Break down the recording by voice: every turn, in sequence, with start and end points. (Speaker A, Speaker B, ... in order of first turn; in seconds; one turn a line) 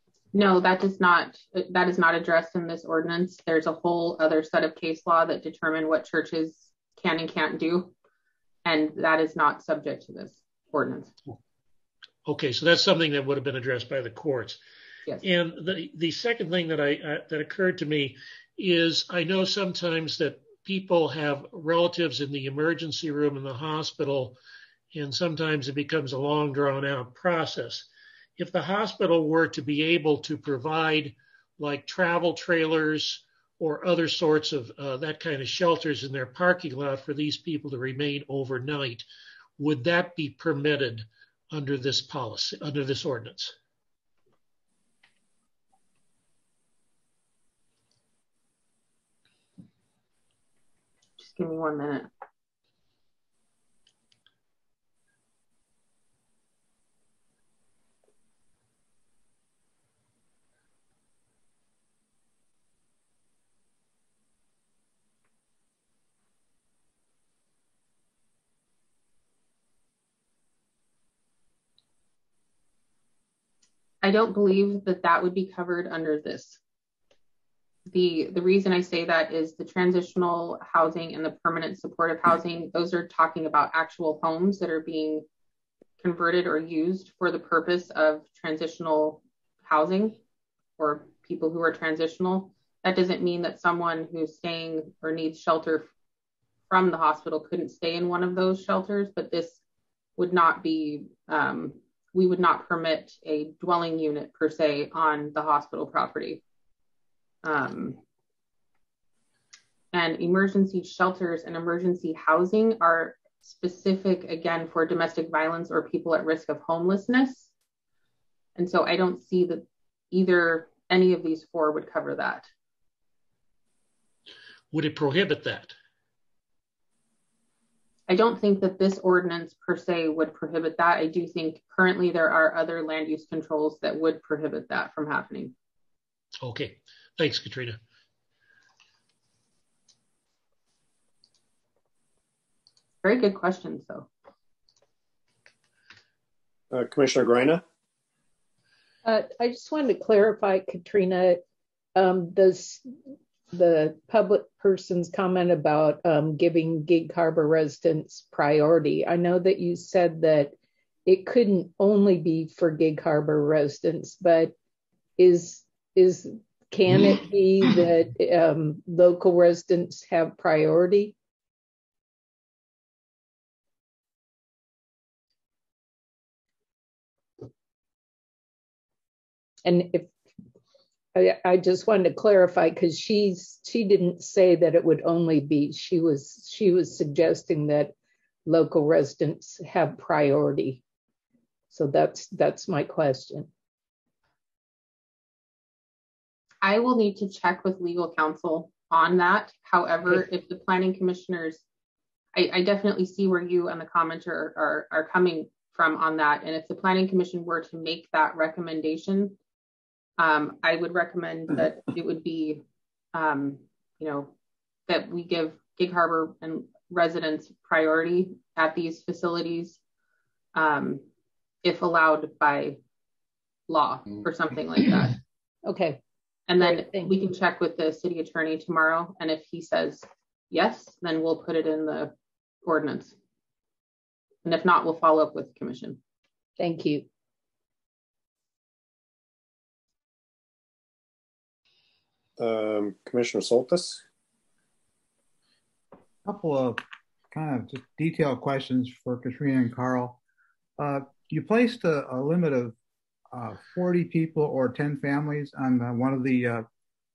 Speaker A: 0.3-7.9
Speaker A: 8.7-11.1
Speaker B: 12.3-14.6
Speaker B: 15.2-24.4
Speaker B: 24.9-39.1
Speaker B: 39.6-43.5
Speaker A: 51.2-52.1
Speaker A: 74.0-76.6
Speaker A: 77.9-85.2
Speaker A: 86.0-90.2
Speaker A: 90.8-95.9
Speaker A: 96.7-99.6
Speaker A: 100.2-106.4
Speaker A: 107.4-108.0
Speaker A: 109.9-117.5
Speaker A: 118.6-122.5
Speaker B: 124.7-125.7
Speaker A: 128.1-135.5
Speaker B: 136.4-137.8
Speaker A: 143.0-144.1
Speaker C: 146.7-147.6
Speaker D: 149.0-151.4
Speaker D: 151.9-152.9
Speaker D: 153.5-160.5
Speaker D: 161.1-164.5
Speaker D: 165.2-171.2
Speaker D: 179.7-180.1
Speaker D: 181.2-187.9
Speaker D: 188.5-190.8
Speaker D: 191.7-193.5
Speaker A: 196.6-201.6
Speaker A: 202.3-209.4
Speaker A: 210.2-214.3
Speaker A: 214.9-219.8
Speaker A: 220.6-221.0
Speaker A: 221.6-222.8
Speaker A: 223.7-225.2
Speaker D: 225.7-226.0
Speaker A: 226.5-232.1
Speaker D: 226.6-227.2
Speaker A: 232.7-233.2
Speaker A: 234.4-236.0
Speaker D: 236.6-237.1
Speaker C: 242.4-244.0
Speaker E: 246.2-250.2
Speaker E: 250.8-252.8
Speaker E: 253.3-256.7